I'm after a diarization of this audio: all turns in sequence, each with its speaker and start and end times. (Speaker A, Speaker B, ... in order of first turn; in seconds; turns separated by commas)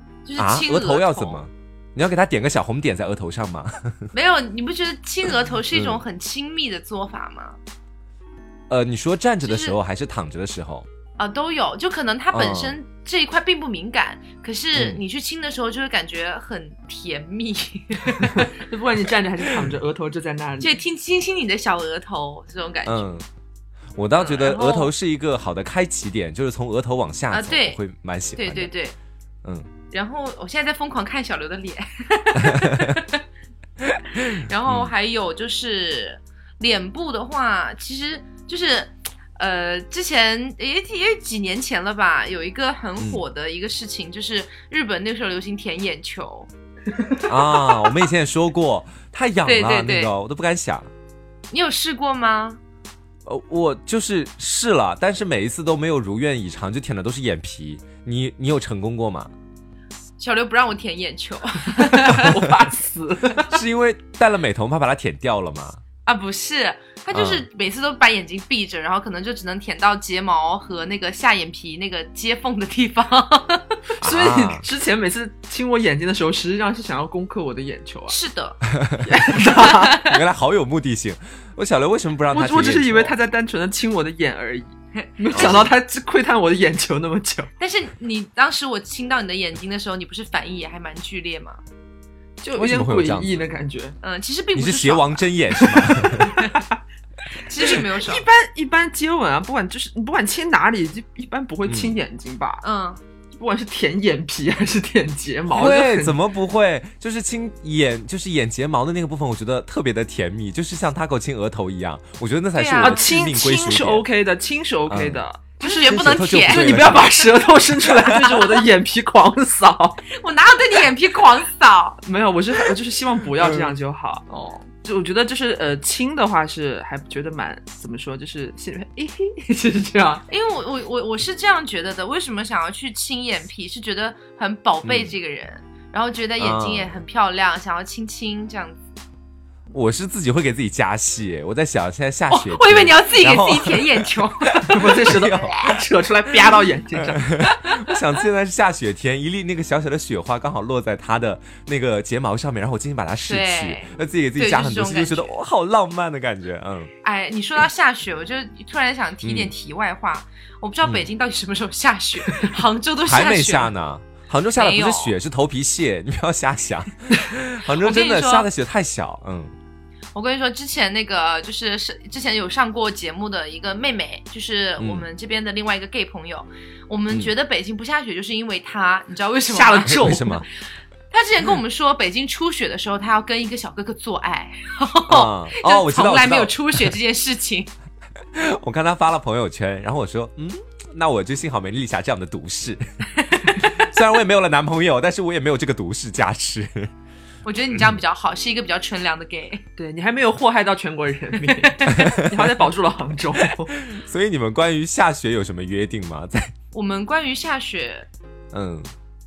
Speaker A: 0.2-1.4, Speaker B: 0.4-4.1, Speaker A: 4.1-7.6, Speaker B: 5.7-6.0, Speaker B: 8.7-10.9, Speaker A: 9.4-9.8, Speaker A: 11.2-18.5, Speaker B: 12.3-12.8, Speaker B: 14.7-15.0, Speaker C: 18.2-20.8, Speaker A: 20.6-23.1, Speaker B: 22.9-23.2, Speaker B: 23.9-28.7, Speaker A: 24.2-24.9, Speaker A: 27.3-27.8, Speaker A: 28.4-28.9, Speaker B: 29.4-29.7, Speaker A: 29.9-33.2, Speaker B: 32.4-32.9, Speaker A: 34.3-46.5, Speaker B: 34.7-34.9, Speaker B: 47.2-50.9, Speaker A: 49.4-50.1, Speaker A: 51.5-52.6, Speaker B: 53.2-59.3, Speaker A: 60.2-62.4, Speaker C: 61.8-63.6, Speaker B: 63.5-65.8, Speaker A: 66.0-73.8, Speaker B: 67.1-67.4, Speaker C: 74.0-78.2, Speaker B: 74.0-74.7, Speaker A: 78.1-78.6, Speaker B: 78.7-79.1, Speaker C: 79.0-80.0, Speaker A: 79.5-80.2, Speaker B: 80.0-83.1, Speaker C: 82.3-87.5, Speaker A: 85.3-85.7, Speaker B: 85.3-85.7, Speaker A: 87.6-91.6, Speaker C: 92.4-94.0, Speaker B: 92.5-93.3, Speaker A: 94.0-95.3, Speaker B: 94.5-96.3, Speaker C: 95.7-96.7, Speaker A: 96.2-96.6, Speaker A: 97.4-98.2, Speaker C: 97.6-102.6, Speaker B: 101.7-102.0, Speaker A: 102.6-103.0, Speaker C: 103.3-106.2, Speaker B: 105.5-114.0, Speaker A: 112.5-113.0, Speaker C: 112.8-115.8, Speaker B: 114.9-117.3, Speaker A: 115.6-117.0, Speaker C: 116.4-120.0, Speaker A: 118.2-118.5, Speaker A: 120.1-122.0, Speaker C: 122.0-130.2, Speaker B: 123.4-123.7, Speaker A: 124.3-124.6, Speaker A: 130.3-138.8, Speaker B: 134.8-135.1, Speaker B: 136.4-137.0, Speaker B: 139.7-145.6, Speaker A: 142.3-145.8, Speaker C: 144.7-147.3, Speaker B: 147.0-156.9, Speaker A: 147.4-147.9, Speaker A: 153.2-155.3, Speaker A: 157.0-163.7, Speaker B: 159.2-159.5, Speaker B: 160.8-161.1, Speaker B: 163.0-169.5, Speaker A: 164.6-165.1, Speaker A: 167.8-168.5, Speaker A: 170.1-180.3, Speaker B: 174.8-175.1, Speaker C: 179.5-180.4, Speaker B: 179.9-180.4, Speaker A: 181.1-187.7, Speaker B: 185.1-186.9, Speaker B: 188.3-196.9, Speaker A: 193.2-193.9, Speaker A: 197.4-199.6, Speaker C: 199.8-203.8, Speaker A: 201.6-202.0, Speaker B: 201.9-202.5, Speaker B: 203.8-206.5, Speaker A: 206.7-208.1, Speaker B: 208.5-208.9